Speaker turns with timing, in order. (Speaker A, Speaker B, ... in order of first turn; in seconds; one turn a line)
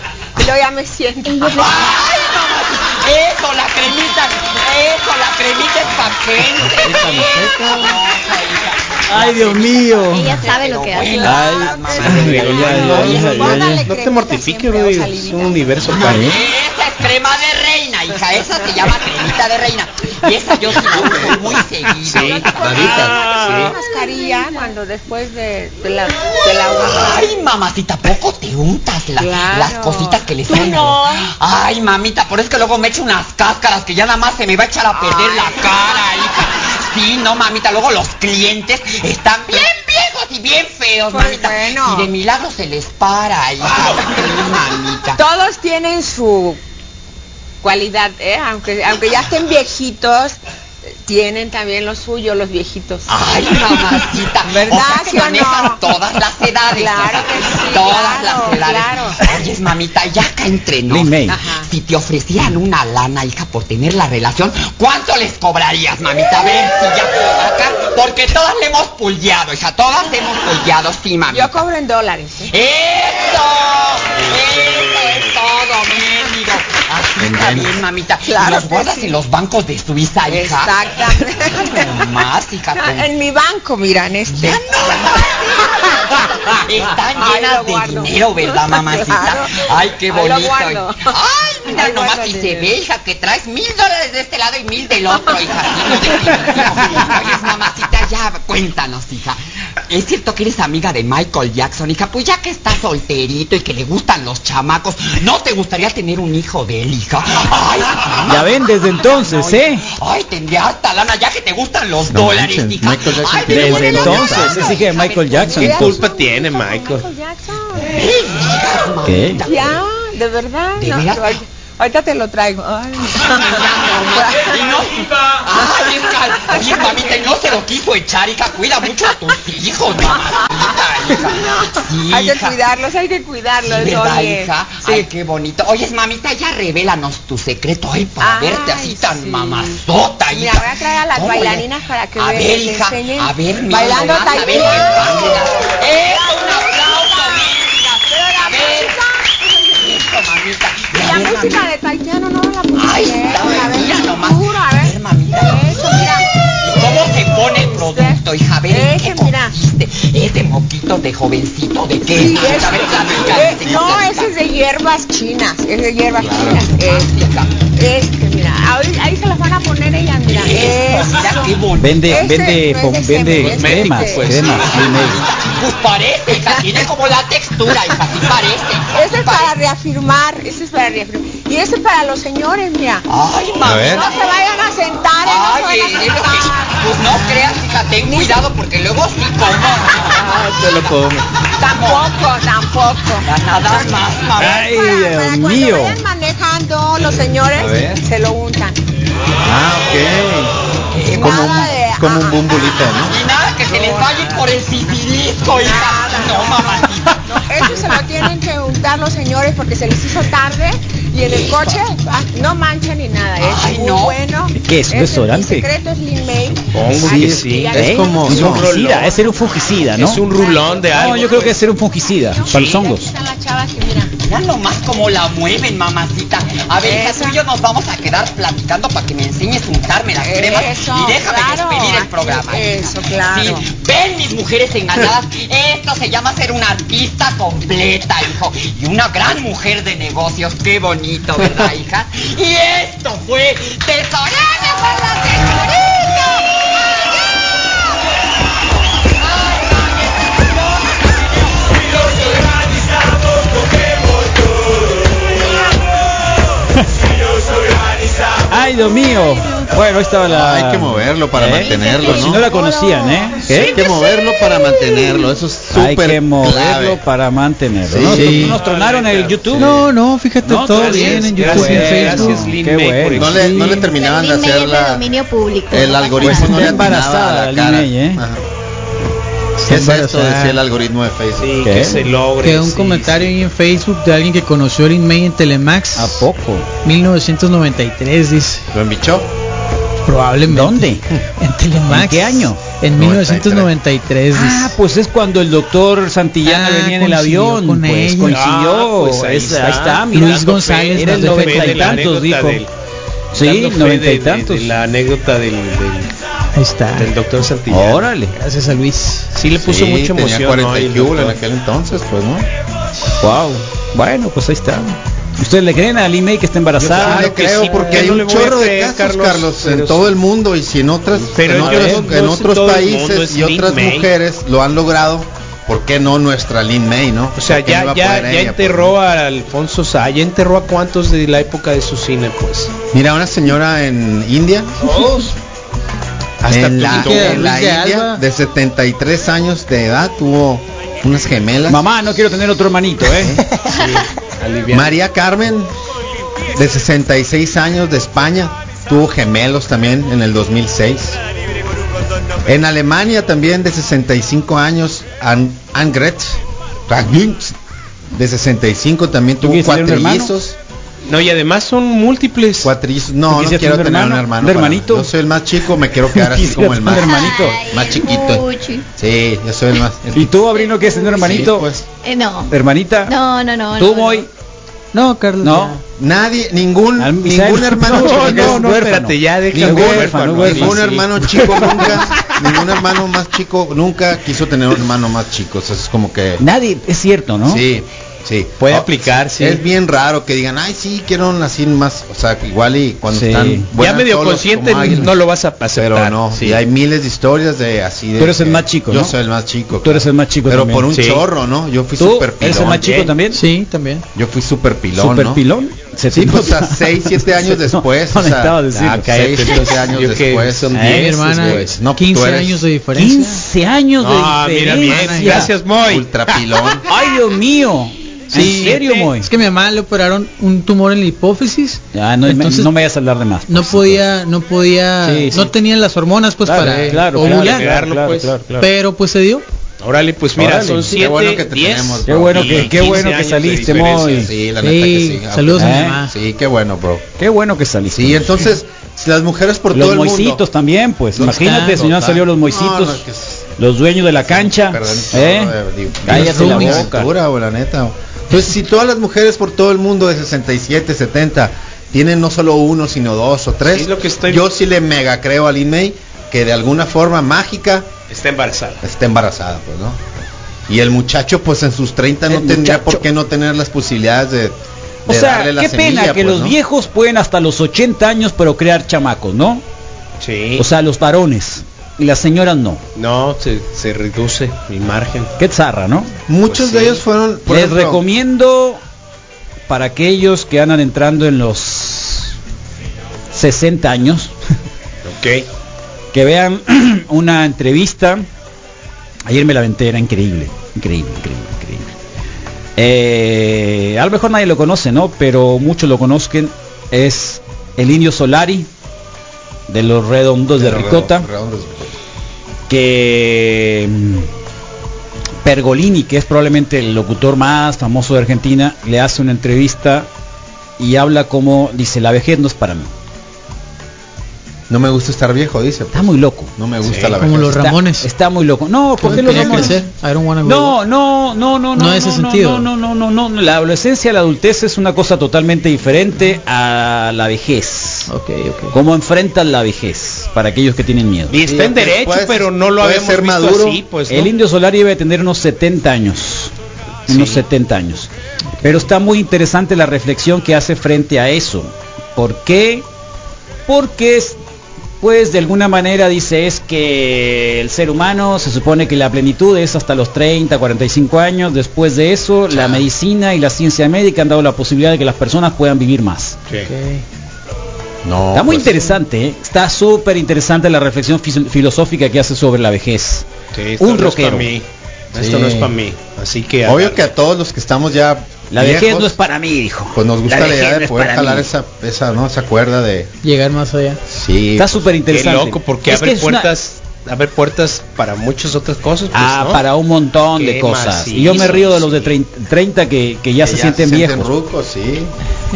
Speaker A: 0.4-1.6
Speaker B: 1.3-1.8
Speaker C: 1.5-13.5
Speaker D: 6.6-7.9
Speaker D: 9.1-10.4
Speaker B: 10.1-11.7
Speaker A: 10.9-15.7
Speaker D: 11.3-13.9
Speaker E: 12.0-16.4
Speaker C: 15.9-23.4
Speaker F: 16.0-16.4
Speaker F: 20.9-21.4
Speaker E: 22.1-22.5
Speaker A: 22.2-27.3
Speaker F: 22.6-23.1
Speaker E: 23.3-23.8
Speaker C: 26.4-45.2
Speaker A: 29.2-31.3
Speaker A: 35.0-35.6
Speaker A: 41.1-42.1
Speaker A: 45.2-46.6
Speaker A: 47.6-50.4
Speaker A: 51.0-53.1
Speaker C: 53.1-71.6
Speaker A: 54.5-55.8
Speaker A: 56.7-59.4
Speaker D: 60.9-61.4
Speaker A: 61.3-61.7
Speaker A: 71.3-72.5
Speaker C: 72.5-80.9
Speaker F: 77.2-77.8
Speaker A: 78.3-79.1
Speaker A: 80.3-82.0
Speaker C: 81.6-83.1
Speaker A: 82.8-86.6
Speaker C: 84.3-115.7
Speaker A: 87.2-91.1
Speaker A: 91.7-92.7
Speaker A: 96.2-96.8
Speaker D: 108.3-109.8
Speaker F: 112.1-114.7
Speaker D: 113.5-116.0
Speaker A: 114.6-118.0
Speaker E: 115.6-117.1
Speaker C: 117.9-119.8
Speaker D: 119.0-119.4
Speaker A: 119.4-124.8
Speaker C: 120.8-121.4
Speaker C: 123.1-132.6
Speaker A: 126.5-127.2
Speaker A: 131.2-135.1
Speaker C: 133.6-149.0
Speaker A: 138.2-139.8
Speaker A: 140.3-147.5
Speaker A: 148.1-149.8
Speaker C: 149.7-151.7
Speaker A: 151.0-156.3
Speaker C: 152.7-164.3
Speaker A: 157.6-159.6
Speaker A: 162.1-174.8
Speaker F: 166.2-166.7
Speaker C: 166.7-167.5
Speaker C: 170.3-172.3
Speaker D: 171.8-175.2
Speaker E: 173.3-175.0
Speaker C: 174.4-179.5
Speaker A: 176.4-176.8
Speaker A: 178.9-183.1
Speaker C: 183.1-184.3
Speaker F: 183.6-184.1
Speaker A: 183.8-187.5
Speaker C: 185.2-190.9
Speaker A: 188.1-188.4
Speaker A: 190.1-190.5
Speaker F: 190.3-191.3
Speaker C: 191.6-192.1
Speaker A: 191.6-198.8
Speaker C: 193.2-194.7
Speaker D: 194.4-196.0
Speaker F: 197.5-198.0
Speaker F: 199.4-200.5
Speaker C: 200.9-201.7
Speaker A: 201.1-202.7
Speaker F: 201.2-203.2
Speaker C: 202.9-208.0
Speaker A: 203.7-204.4
Speaker A: 205.6-224.1
Speaker C: 211.2-211.8
Speaker C: 213.4-214.2
Speaker D: 214.6-215.7
Speaker E: 216.7-219.2
Speaker F: 217.0-218.7
Speaker D: 217.7-220.2
Speaker E: 219.9-221.6
Speaker D: 220.9-223.1
Speaker E: 222.5-222.8
Speaker C: 224.2-246.4
Speaker A: 226.8-227.4
Speaker A: 230.2-233.7
Speaker D: 258.5-263.8
Speaker F: 260.3-262.5
Speaker F: 263.5-267.0
Speaker D: 265.7-269.9
Speaker F: 267.9-268.6
Speaker G: 268.1-268.6
Speaker E: 268.1-269.8
Speaker G: 269.6-272.5
Speaker D: 270.4-273.4
Speaker E: 270.7-273.8
Speaker F: 273.2-275.1
Speaker G: 273.3-273.9
Speaker B: 273.8-276.7
Speaker F: 275.7-278.4
Speaker D: 276.2-278.2
Speaker G: 279.6-280.6
Speaker F: 279.7-281.6
Speaker E: 281.4-283.4
Speaker D: 281.6-282.1
Speaker G: 282.4-286.3
Speaker D: 285.9-286.7
Speaker G: 286.8-288.7
Speaker F: 288.7-289.3
Speaker G: 290.1-294.8
Speaker D: 290.5-291.0
Speaker D: 291.9-292.6
Speaker F: 292.9-293.7
Speaker D: 294.3-302.6
Speaker G: 296.4-298.4
Speaker E: 298.3-302.7
Speaker G: 300.1-302.1
Speaker D: 303.3-304.7
Speaker E: 303.4-306.1
Speaker G: 306.6-307.1
Speaker E: 306.9-308.1
Speaker D: 307.7-308.4
Speaker G: 308.3-309.3
Speaker E: 309.3-311.4
Speaker F: 309.6-312.5
Speaker D: 313.2-317.6
Speaker E: 316.8-320.1
Speaker F: 316.8-329.0
Speaker E: 321.2-324.1
Speaker D: 321.5-322.1
Speaker E: 327.4-332.8
Speaker F: 332.9-334.8
Speaker E: 334.8-335.3
Speaker G: 334.9-335.3
Speaker E: 336.4-337.6
Speaker F: 336.5-341.9
Speaker G: 336.8-338.2
Speaker D: 341.7-343.4
Speaker F: 343.2-343.4
Speaker E: 343.7-345.0
Speaker F: 344.7-345.7
Speaker F: 346.5-351.2
Speaker F: 352.4-357.6
Speaker F: 358.1-360.6
Speaker D: 359.4-360.3
Speaker E: 361.1-362.7
Speaker F: 362.6-370.5
Speaker D: 363.3-365.1
Speaker D: 366.1-367.6
Speaker B: 366.9-368.9
Speaker D: 370.1-371.7
Speaker B: 370.5-371.4
Speaker F: 371.1-371.8
Speaker B: 372.0-374.3
Speaker D: 372.5-373.2
Speaker D: 373.8-374.3
Speaker G: 374.9-375.8
Speaker D: 375.4-375.8
Speaker F: 376.0-378.7
Speaker D: 377.0-382.8
Speaker E: 377.9-381.0
Speaker F: 379.5-386.4
Speaker D: 386.4-387.6
Speaker F: 387.5-395.2
Speaker E: 388.6-389.6
Speaker D: 393.1-393.7
Speaker E: 393.8-396.6
Speaker F: 395.8-403.1
Speaker D: 398.2-399.1
Speaker D: 399.8-400.9
Speaker E: 400.9-401.2
Speaker D: 402.0-403.4
Speaker E: 402.8-403.1
Speaker G: 403.3-404.1
Speaker F: 404.1-405.4
Speaker D: 404.9-409.4
Speaker F: 406.1-412.6
Speaker E: 408.7-411.8
Speaker D: 410.7-411.2
Speaker G: 410.8-413.4
Speaker D: 412.9-415.6
Speaker E: 414.0-416.6
Speaker G: 414.9-415.4
Speaker F: 415.7-416.9
Speaker D: 416.9-419.3
Speaker G: 418.3-422.7
Speaker E: 418.4-419.1
Speaker D: 421.9-424.1
Speaker G: 423.5-427.7
Speaker D: 425.0-425.5
Speaker D: 426.4-428.5
Speaker E: 426.6-428.7
Speaker G: 428.6-429.4
Speaker E: 429.8-434.3
Speaker F: 430.4-433.0
Speaker D: 430.4-430.8
Speaker D: 432.1-434.3
Speaker F: 434.2-437.1
Speaker G: 434.6-436.1
Speaker D: 435.6-436.0
Speaker D: 437.2-438.5
Speaker F: 437.9-440.4
Speaker D: 439.7-443.0
Speaker F: 441.1-443.5
Speaker D: 443.6-447.1
Speaker F: 444.2-457.9
Speaker G: 446.1-446.9
Speaker E: 453.7-454.5
Speaker E: 458.1-458.8
Speaker F: 458.8-460.0
Speaker F: 460.7-464.6
Speaker D: 462.3-463.0
Speaker F: 465.1-466.6
Speaker D: 465.1-469.6
Speaker E: 470.2-470.7
Speaker D: 470.6-472.8
Speaker E: 472.9-475.4
Speaker D: 475.4-476.1
Speaker F: 476.3-478.0
Speaker E: 476.5-477.0
Speaker D: 477.5-478.8
Speaker D: 479.7-482.4
Speaker D: 483.3-484.3
Speaker E: 485.1-485.5
Speaker D: 486.1-488.3
Speaker D: 489.3-491.9
Speaker D: 492.8-498.7
Speaker D: 499.7-501.3
Speaker F: 500.6-502.0
Speaker D: 502.7-504.3
Speaker D: 505.4-510.1
Speaker D: 510.8-512.9
Speaker F: 514.7-517.7
Speaker D: 515.9-516.5
Speaker E: 516.8-517.2
Speaker G: 517.2-518.1
Speaker D: 517.4-519.9
Speaker G: 519.0-520.8
Speaker D: 520.4-528.1
Speaker G: 521.8-522.7
Speaker G: 528.1-528.8
Speaker D: 528.7-531.4
Speaker E: 531.3-534.3
Speaker F: 531.4-533.8
Speaker D: 534.1-536.5
Speaker D: 537.1-538.1
Speaker E: 537.1-537.4
Speaker D: 538.6-542.9
Speaker D: 543.7-544.4
Speaker D: 545.0-556.4
Speaker E: 552.5-552.8
Speaker G: 556.6-557.0
Speaker F: 558.0-559.0
Speaker D: 558.3-563.3
Speaker E: 563.5-567.1
Speaker D: 563.8-564.5
Speaker F: 565.1-565.7
Speaker F: 566.6-569.2
Speaker D: 568.5-571.5
Speaker F: 569.9-573.1
Speaker G: 573.2-574.0
Speaker F: 574.1-575.0
Speaker D: 574.6-576.5
Speaker E: 575.1-579.7
Speaker D: 579.1-584.3
Speaker E: 580.3-582.2
Speaker F: 583.4-585.1